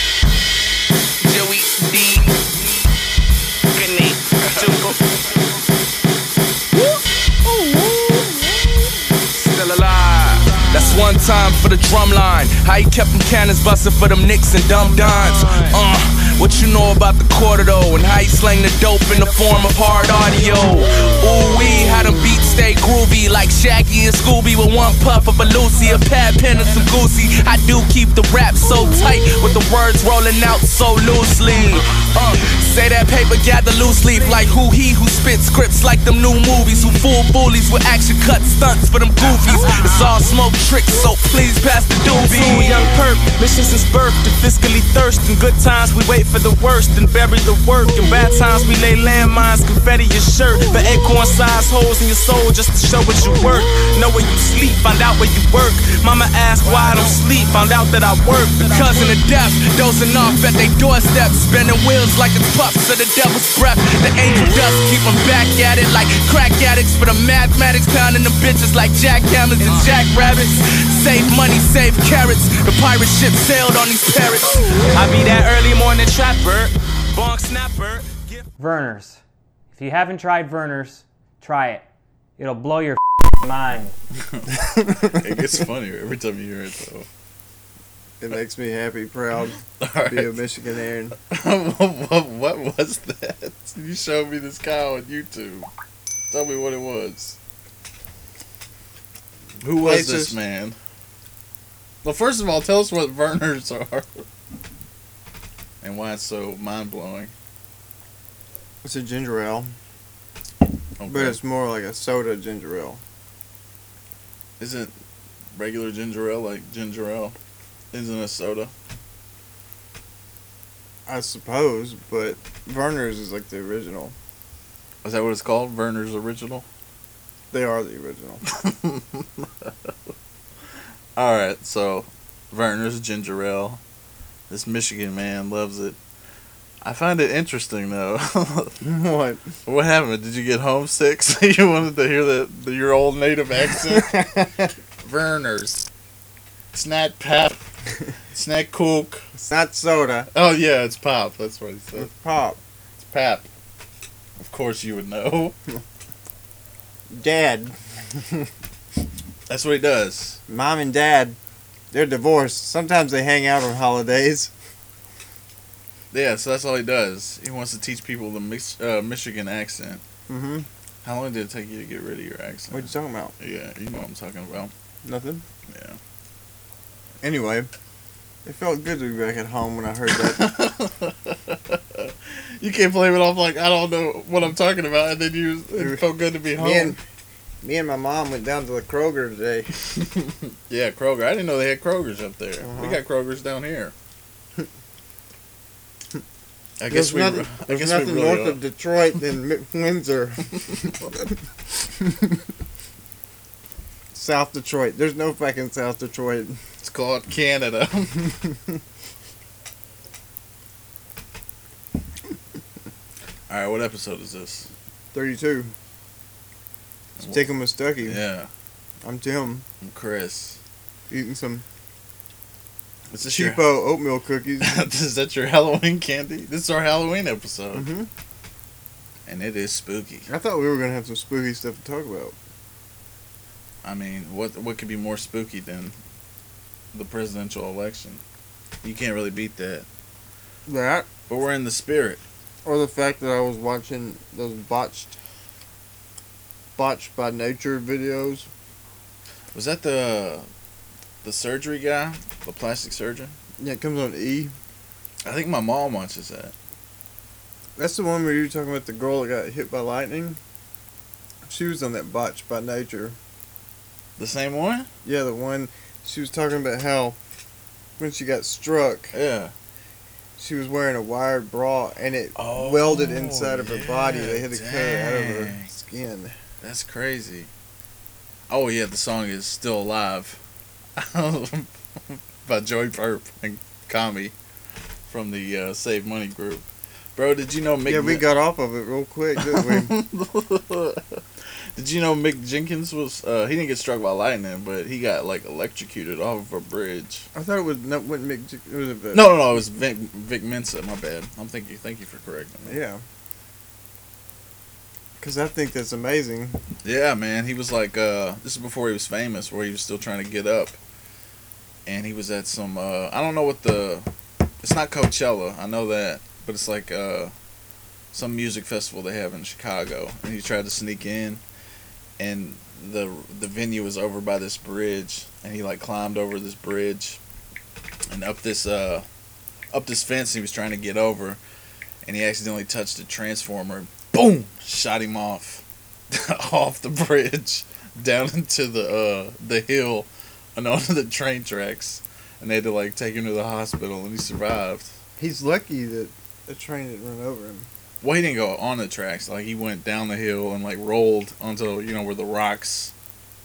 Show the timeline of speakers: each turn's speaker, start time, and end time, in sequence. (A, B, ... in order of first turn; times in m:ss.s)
0:01.2-0:02.6 A
0:03.7-0:05.0 A
0:06.7-0:08.7 A
0:09.3-0:42.9 A
0:14.8-0:15.8 B
0:19.5-0:19.9 B
0:39.4-0:40.1 B
0:42.2-0:59.0 B
0:53.2-0:53.5 A
0:54.1-0:54.5 A
0:56.6-0:57.4 A
0:58.5-1:16.1 A
1:09.6-1:10.0 B
1:14.9-1:18.4 B
1:17.1-1:17.7 A
1:18.6-1:19.2 C
1:19.7-1:21.8 C
1:22.4-1:23.9 C
1:24.2-1:27.1 D
1:24.9-1:25.1 E
1:28.2-1:31.2 E
1:29.8-1:30.4 D
1:31.2-1:35.7 D
1:36.3-1:37.4 D
1:39.6-1:40.8 D
1:39.8-1:40.4 E
1:42.0-1:44.2 D
1:45.8-1:47.3 D
1:48.8-1:49.7 E
1:51.0-1:51.4 D
1:51.0-1:53.0 E
1:54.6-1:54.9 D
1:55.5-1:57.4 D
1:57.9-1:58.7 D
2:01.1-2:04.1 E
2:05.0-2:06.6 D
2:07.5-2:08.4 E
2:08.5-2:09.9 D
2:11.2-2:13.8 D
2:14.5-2:16.0 D
2:16.8-2:18.8 D
2:18.8-2:19.5 E
2:19.6-2:24.1 D
2:23.8-2:24.7 E
2:25.0-2:25.8 D
2:26.7-2:27.6 D
2:28.3-2:29.2 D
2:29.3-2:30.3 E
2:30.3-2:32.1 D
2:31.9-2:32.6 E
2:33.0-2:33.5 D
2:34.4-2:35.6 D
2:37.1-2:38.5 E
2:39.5-2:40.4 D
2:40.5-2:41.4 E
2:41.9-2:44.5 E
2:46.1-2:50.0 D
2:50.3-2:50.7 E
2:51.0-2:54.7 D
2:52.7-2:53.3 E
2:55.0-2:55.4 E
2:55.7-2:56.0 D
2:57.2-2:57.7 E
2:58.4-3:00.5 E
3:00.1-3:07.0 D
3:05.8-3:07.0 E
3:07.6-3:09.7 E
3:09.8-3:13.9 D
3:12.6-3:13.0 E
3:16.8-3:18.6 D
3:16.9-3:21.3 E
3:22.0-3:22.4 E
3:24.1-3:26.6 E
3:26.8-3:28.3 D
3:33.5-3:34.7 D
3:35.1-3:35.7 E
3:37.2-3:38.5 D
3:37.2-3:38.2 E
3:39.0-3:39.6 E
3:39.8-3:40.6 D
3:41.1-3:41.6 E
3:43.1-3:43.6 D
3:43.3-3:44.8 E
3:44.6-3:47.9 D
3:47.7-3:48.1 E
3:49.2-3:50.3 D
3:50.3-3:52.4 E
3:53.8-3:56.0 D
3:56.9-3:58.2 D
3:58.8-3:59.8 D
4:00.7-4:01.1 E
4:01.3-4:02.2 D
4:02.6-4:05.1 E
4:06.8-4:08.5 E
4:09.5-4:10.5 D
4:11.2-4:13.3 D
4:13.6-4:14.5 E
4:15.2-4:16.5 D
4:17.8-4:20.4 E
4:21.4-4:23.2 E
4:24.2-4:24.9 D
4:25.0-4:27.2 E
4:28.0-4:29.1 E
4:29.1-4:29.5 D
4:30.4-4:36.3 E
4:32.4-4:35.7 D
4:36.6-4:37.5 D
4:38.5-4:40.4 D
4:41.0-4:44.3 D
4:45.1-4:48.3 D
4:47.8-4:49.9 E
4:49.4-4:51.2 D
4:51.7-4:57.3 D
4:57.3-4:59.3 E
4:59.1-5:02.8 D
5:02.6-5:03.0 E
5:05.2-5:06.6 E
5:06.8-5:10.8 D
5:11.8-5:14.1 D
5:14.6-5:17.3 D
5:18.1-5:21.4 D
5:22.2-5:27.2 D
5:28.1-5:29.0 D
5:29.7-5:31.4 D
5:32.0-5:44.9 D
5:45.2-5:47.7 E
5:48.0-5:52.9 D